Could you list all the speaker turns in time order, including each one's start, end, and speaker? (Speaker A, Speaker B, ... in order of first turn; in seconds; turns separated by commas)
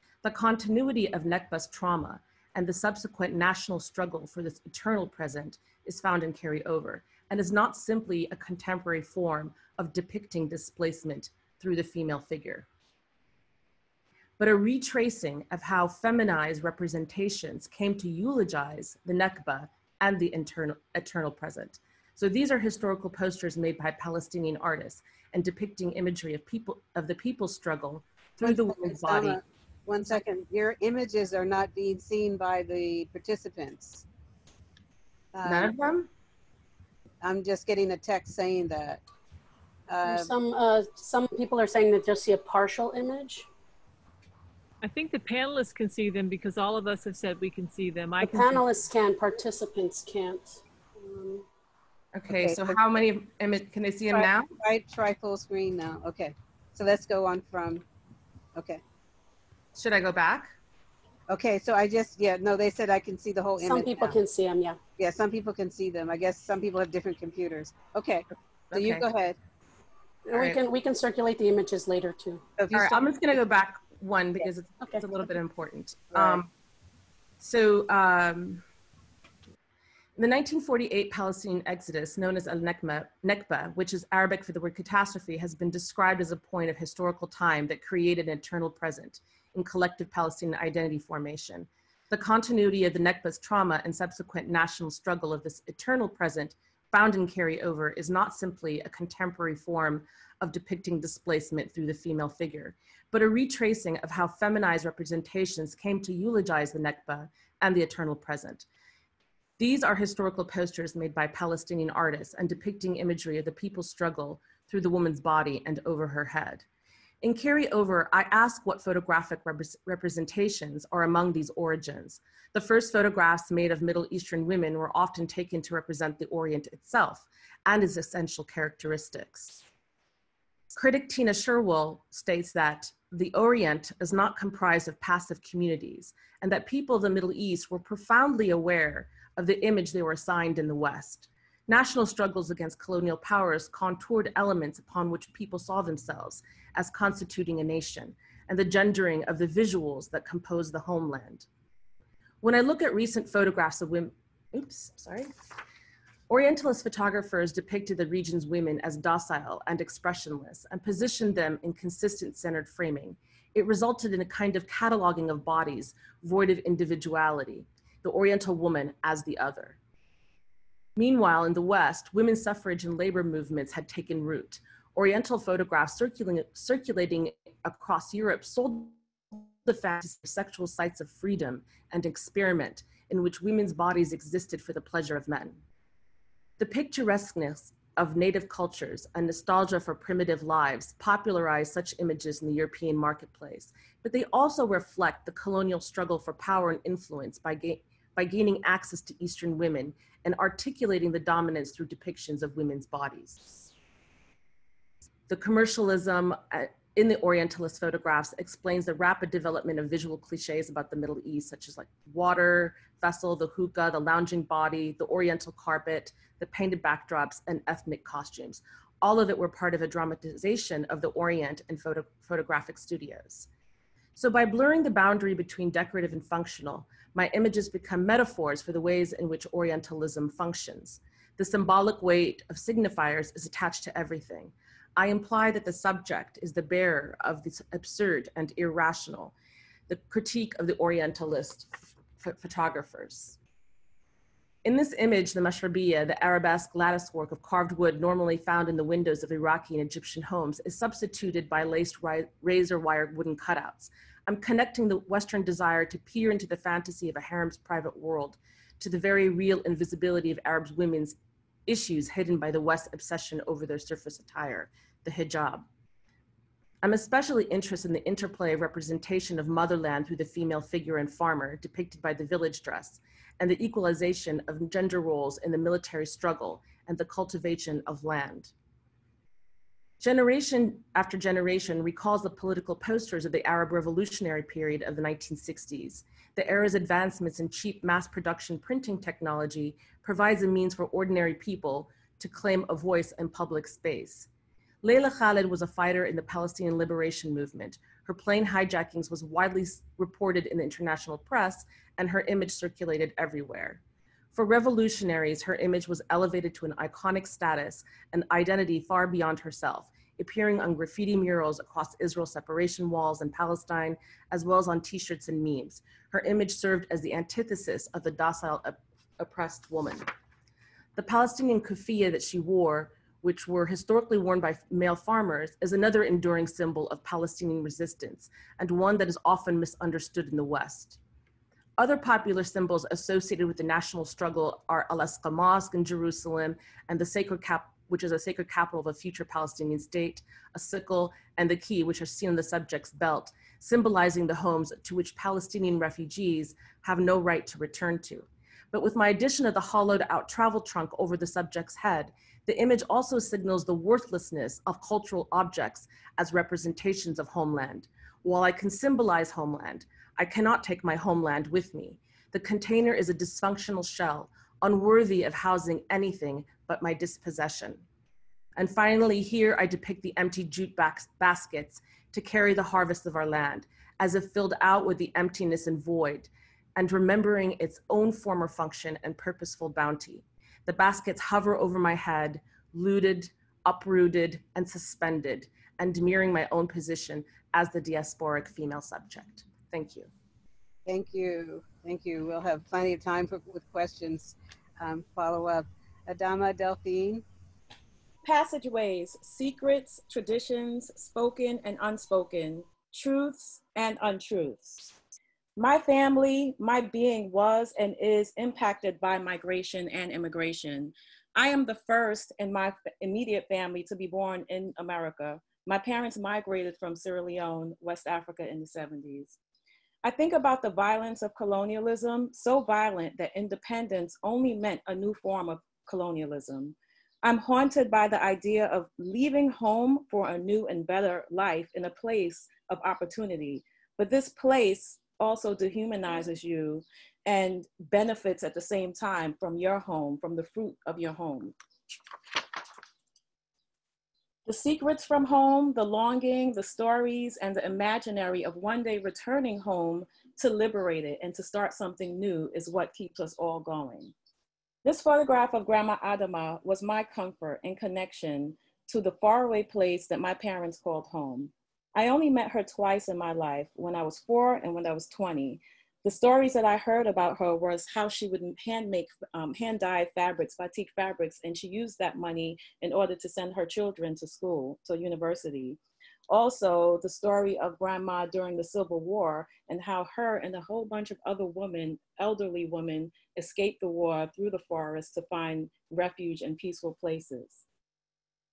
Speaker A: 0.2-12.7, Speaker A: 14.4-29.4, Speaker B: 28.4-34.0, Speaker B: 35.3-35.8, Speaker A: 35.4-36.1, Speaker B: 37.2-39.0, Speaker B: 39.9-40.3, Speaker C: 40.0-43.5, Speaker D: 44.8-48.9, Speaker C: 48.2-51.4, Speaker A: 52.1-54.5, Speaker B: 52.4-52.8, Speaker B: 54.1-57.8, Speaker B: 58.5-58.8, Speaker A: 59.7-60.5, Speaker B: 61.3-64.2, Speaker C: 63.6-64.8, Speaker B: 65.0-69.4, Speaker A: 68.7-69.0, Speaker C: 70.3-72.4, Speaker A: 70.3-70.6, Speaker B: 72.6-73.1, Speaker A: 72.7-76.5, Speaker B: 76.1-76.4, Speaker A: 77.4-78.6, Speaker A: 80.2-108.7, Speaker A: 109.6-116.7, Speaker A: 117.2-129.6, Speaker A: 130.7-151.5, Speaker A: 152.4-155.3, Speaker A: 156.3-169.8, Speaker A: 170.9-185.6, Speaker A: 186.6-203.7, Speaker A: 205.3-223.5, Speaker A: 224.2-239.3, Speaker A: 239.9-243.4, Speaker A: 244.6-265.6, Speaker A: 266.8-278.5, Speaker A: 280.0-294.3, Speaker A: 294.8-303.8, Speaker A: 304.3-320.1, Speaker A: 320.9-331.0, Speaker A: 331.8-367.8, Speaker A: 368.6-390.1, Speaker B: 390.9-397.2, Speaker E: 398.2-404.9, Speaker E: 405.6-419.4, Speaker E: 420.0-441.5, Speaker E: 444.4-454.1, Speaker E: 454.8-475.8, Speaker E: 476.3-487.6